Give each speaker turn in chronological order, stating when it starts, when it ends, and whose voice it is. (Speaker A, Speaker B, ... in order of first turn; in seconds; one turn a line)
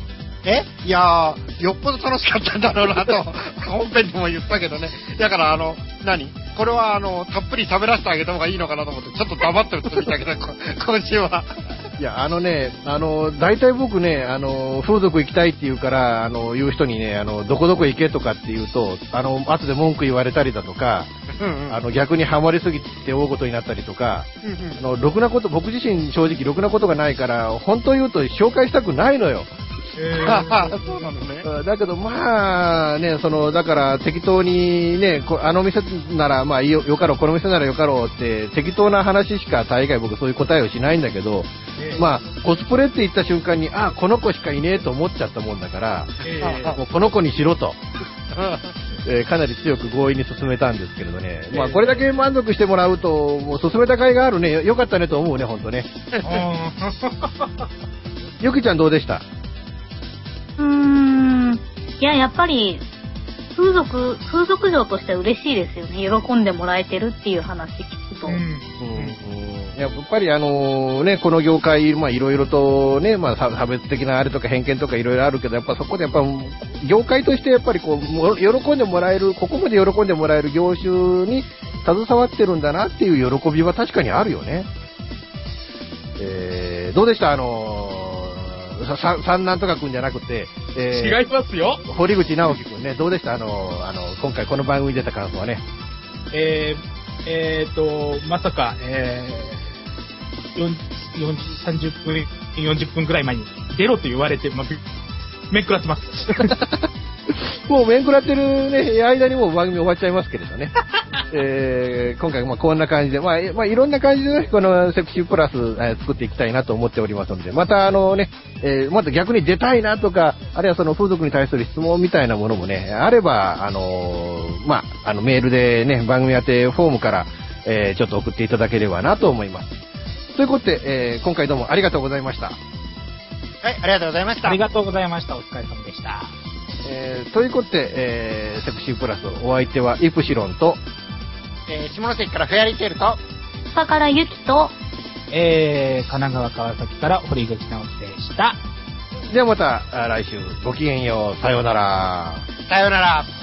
Speaker A: 0.4-11.5
Speaker B: 12.0-21.1
Speaker A: 21.4-21.8
Speaker B: 21.7-24.3
Speaker A: 24.4-24.8
Speaker B: 24.8-29.5
Speaker C: 29.9-31.1
Speaker A: 30.2-31.4
Speaker B: 31.4-47.8
Speaker C: 41.8-42.2
Speaker C: 46.2-46.8
Speaker A: 46.4-46.8
Speaker A: 48.4-48.6
Speaker B: 49.0-55.9
Speaker C: 51.5-52.1
Speaker C: 56.2-57.7
Speaker B: 58.4-59.2
Speaker D: 60.6-62.9
Speaker D: 63.5-68.4
Speaker C: 68.3-69.2
Speaker B: 68.8-84.7
Speaker B: 86.2-91.2
Speaker C: 90.9-91.8
Speaker B: 91.8-95.6
Speaker C: 96.3-99.7
Speaker C: 100.5-104.8
Speaker C: 105.5-106.6
Speaker B: 106.4-110.7
Speaker B: 111.3-129.8
Speaker B: 130.3-132.6
Speaker A: 133.6-134.6
Speaker C: 134.4-136.3
Speaker B: 136.8-140.8
Speaker A: 141.7-143.2
Speaker D: 143.7-144.8
Speaker C: 145.3-148.6
Speaker B: 149.3-152.4
Speaker A: 152.7-153.3